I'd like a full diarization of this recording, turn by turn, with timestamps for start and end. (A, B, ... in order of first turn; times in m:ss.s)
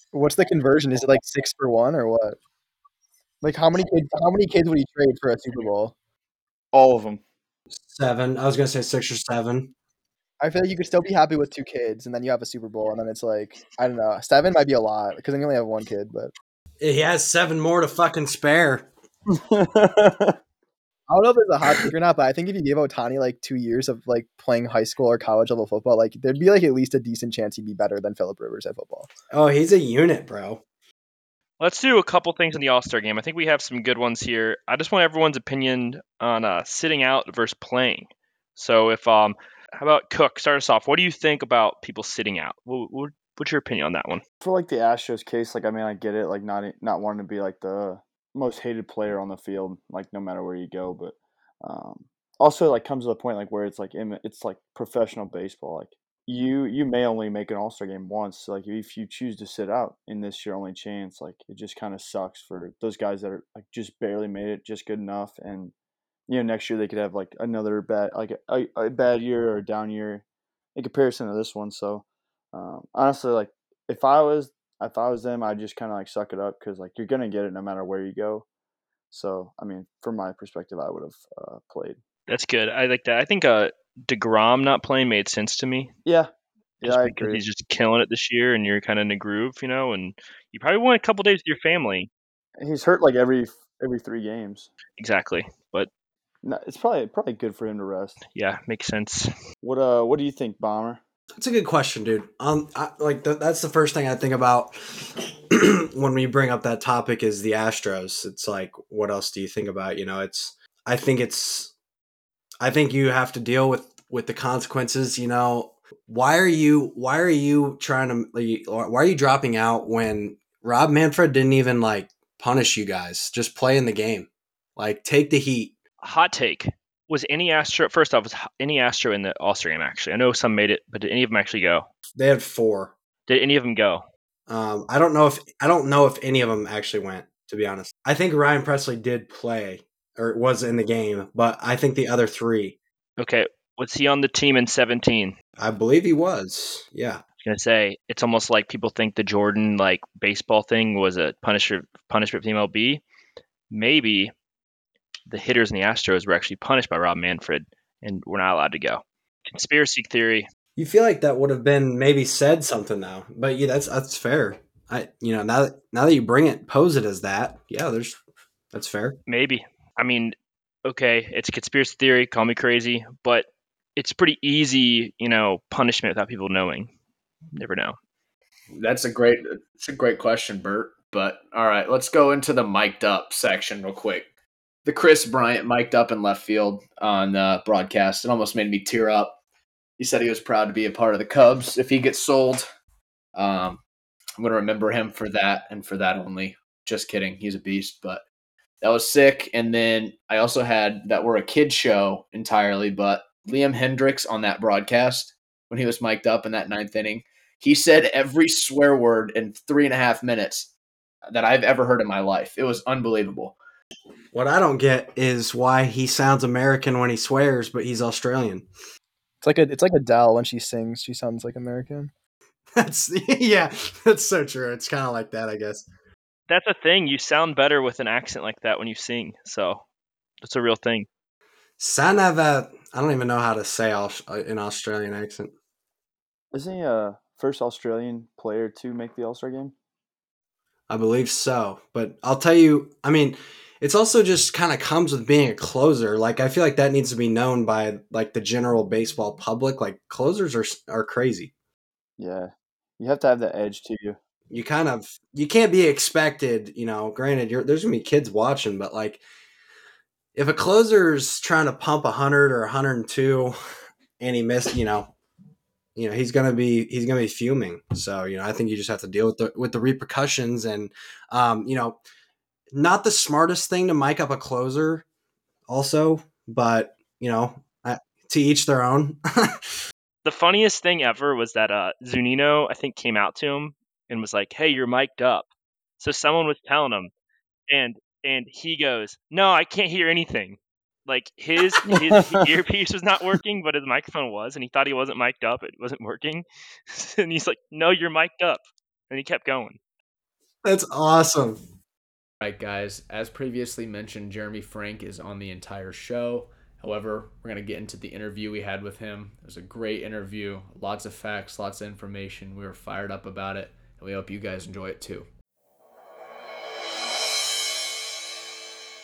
0:00.1-0:02.4 A
0:03.4-0:06.0 A
0:06.7-0:07.2 B
0:07.8-0:09.7 C
0:10.4-0:16.3 A
0:16.8-0:18.9 C
0:19.3-0:20.3 B
0:21.1-0:29.1 A
0:29.3-0:30.6 C
0:31.6-0:44.2 D
0:44.4-1:05.7 B
1:06.3-1:10.2 B
1:10.8-1:18.5 B
1:19.1-1:22.0 B
1:22.3-1:25.9 D
1:26.0-1:27.4 B
1:26.8-1:32.1 D
1:32.6-1:34.7 B
1:35.0-1:35.9 D
1:36.4-1:38.2 B
1:38.3-1:39.3 D
1:39.6-1:41.0 B
1:41.4-1:51.7 C
1:52.6-2:05.8 C
2:06.0-2:11.9 D
2:12.2-2:12.9 C
2:13.3-2:14.0 D
2:14.5-2:22.8 C
2:23.2-2:25.4 D
2:25.6-2:27.2 C
2:27.4-2:33.0 D
2:33.7-2:34.3 D
2:35.3-2:40.5 D
2:40.8-2:48.2 C
2:48.7-2:49.2 C
2:49.3-2:56.9 D
2:57.6-2:58.0 D
2:58.7-3:04.3 E
3:04.8-3:09.4 E
3:10.0-3:12.7 E
3:13.4-3:13.8 E
3:14.4-3:18.2 E
3:18.8-3:30.7 E
3:31.3-3:33.6 E
3:34.3-3:38.7 C
3:39.4-3:42.1 A
3:42.8-3:45.9 C
3:46.5-3:49.8 D
3:50.4-3:51.1 D
3:51.8-3:55.5 C
3:56.5-3:59.7 B
4:00.9-4:11.5 C
4:12.2-4:14.2 B
4:14.5-4:19.2 C
4:20.4-4:23.6 C
4:24.2-4:25.1 C
4:26.0-4:32.0 C
4:32.7-4:35.0 C
4:35.7-4:39.6 C
4:40.2-4:45.5 D
4:46.0-4:47.1 D
4:47.7-4:59.8 D
4:51.8-4:52.4 C
5:00.6-5:01.6 C
5:02.4-5:15.3 E